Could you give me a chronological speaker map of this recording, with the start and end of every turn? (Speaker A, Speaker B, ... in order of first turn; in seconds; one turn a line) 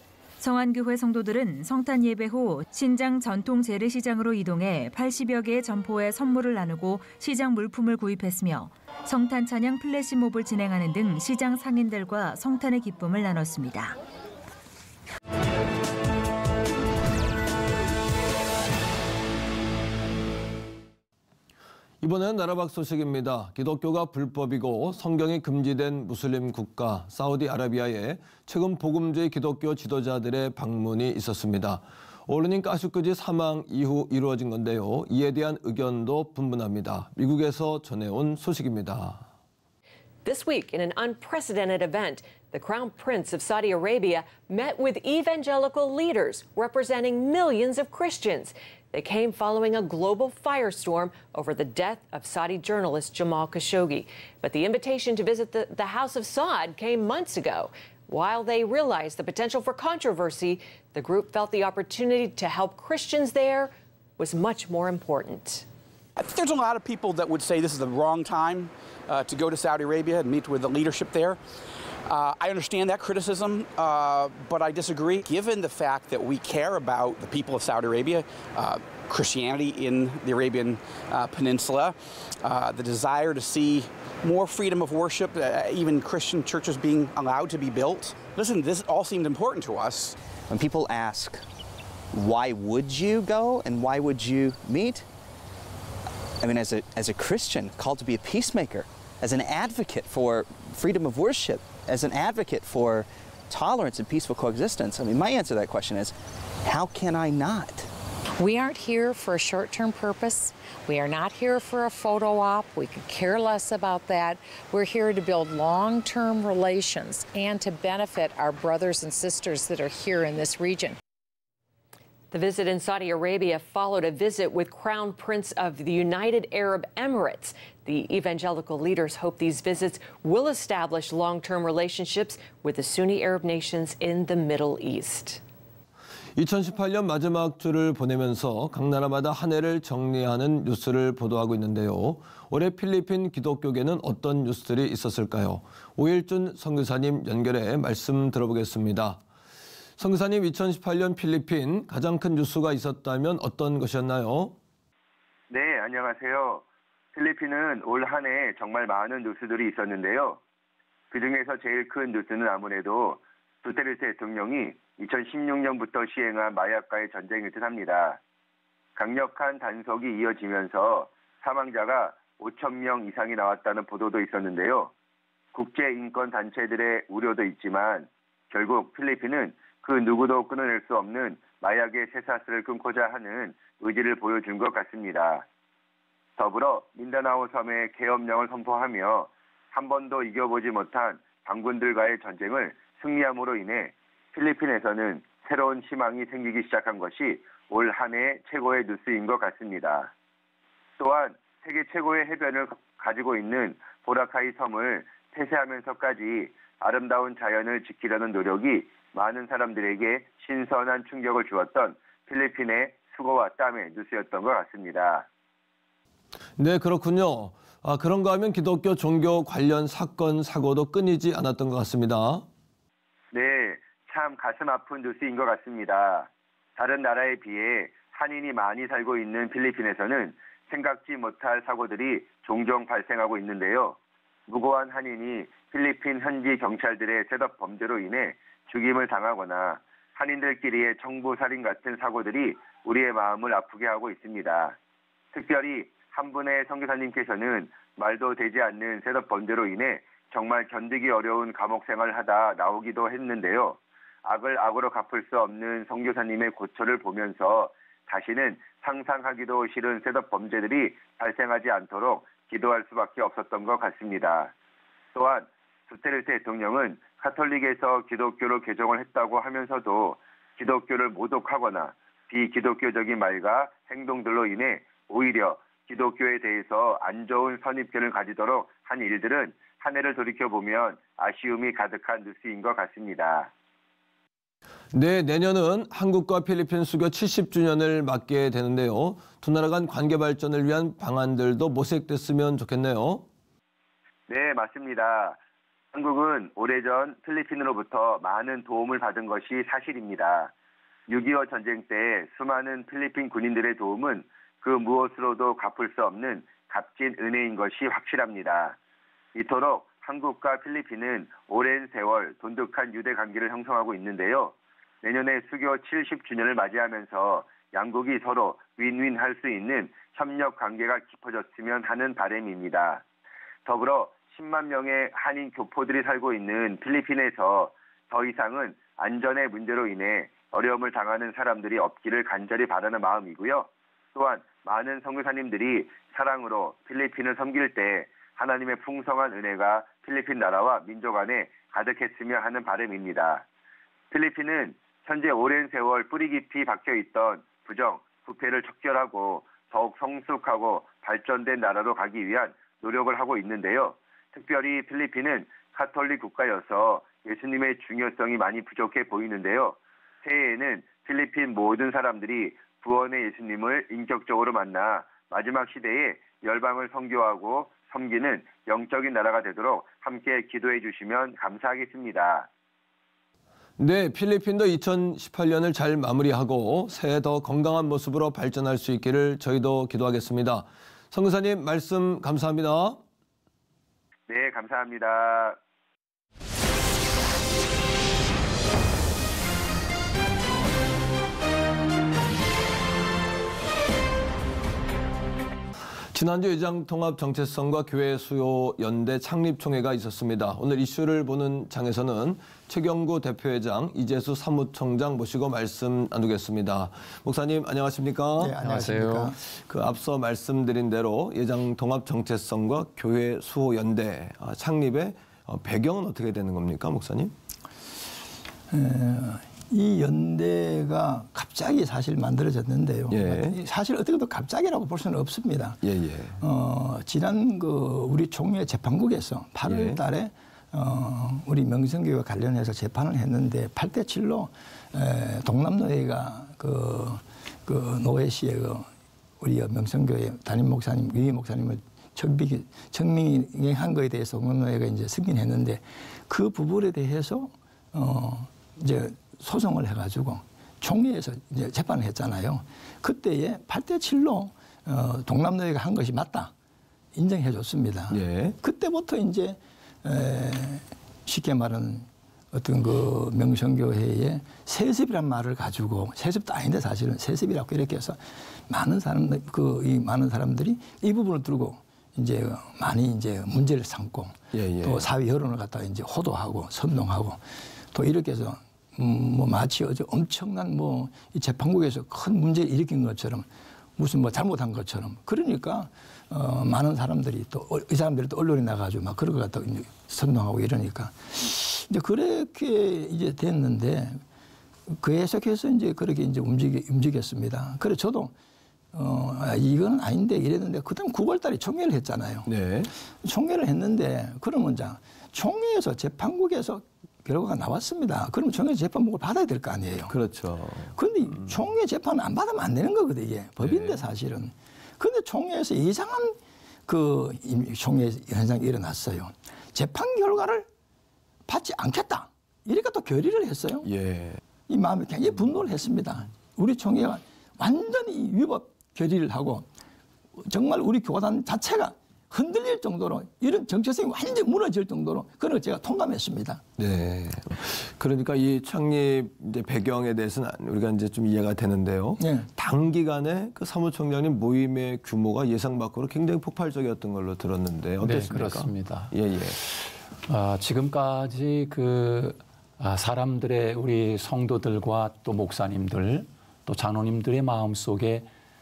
Speaker A: 0.4-14.0
Speaker B: 22.0-39.2
Speaker C: 40.2-65.7
Speaker D: 66.2-71.4
Speaker D: 72.1-90.2
Speaker E: 90.5-91.4
Speaker E: 92.1-95.1
Speaker E: 96.4-107.9
Speaker F: 108.4-121.0
Speaker C: 122.3-135.4
Speaker B: 136.4-149.2
Speaker B: 150.0-154.6
Speaker G: 155.5-160.4
Speaker G: 161.1-168.2
Speaker G: 169.0-174.9
Speaker G: 175.5-185.4
Speaker G: 186.4-200.1
Speaker G: 201.0-215.2
Speaker B: 216.6-222.5
Speaker G: 223.3-234.0
Speaker G: 234.5-244.8
Speaker G: 245.3-264.5
Speaker G: 265.1-283.5
Speaker B: 284.9-293.2
Speaker G: 294.3-295.4
Speaker G: 295.9-300.5
Speaker G: 301.1-308.8
Speaker G: 309.4-323.0
Speaker G: 323.6-343.4
Speaker G: 344.1-372.5
Speaker B: 373.8-383.0
Speaker G: 384.3-385.6
Speaker B: 396.1-408.6
Speaker H: 408.4-409.4
Speaker I: 408.6-409.3
Speaker B: 409.2-417.3
Speaker H: 418.7-425.8
Speaker B: 423.1-423.6
Speaker B: 425.8-426.4
Speaker H: 426.4-438.9
Speaker B: 429.6-430.0
Speaker H: 439.4-456.5
Speaker H: 457.1-483.5
Speaker B: 458.1-458.6
Speaker B: 474.5-475.1
Speaker H: 484.0-494.2
Speaker H: 494.9-498.3
Speaker H: 498.9-502.5
Speaker B: 502.5-502.9
Speaker H: 503.2-510.1
Speaker B: 510.1-510.9
Speaker H: 510.9-520.7
Speaker B: 513.6-514.0
Speaker H: 521.5-523.9
Speaker B: 523.9-524.4
Speaker H: 524.7-529.7
Speaker H: 530.4-536.6
Speaker B: 536.8-549.6
Speaker H: 542.2-542.5
Speaker I: 548.0-558.3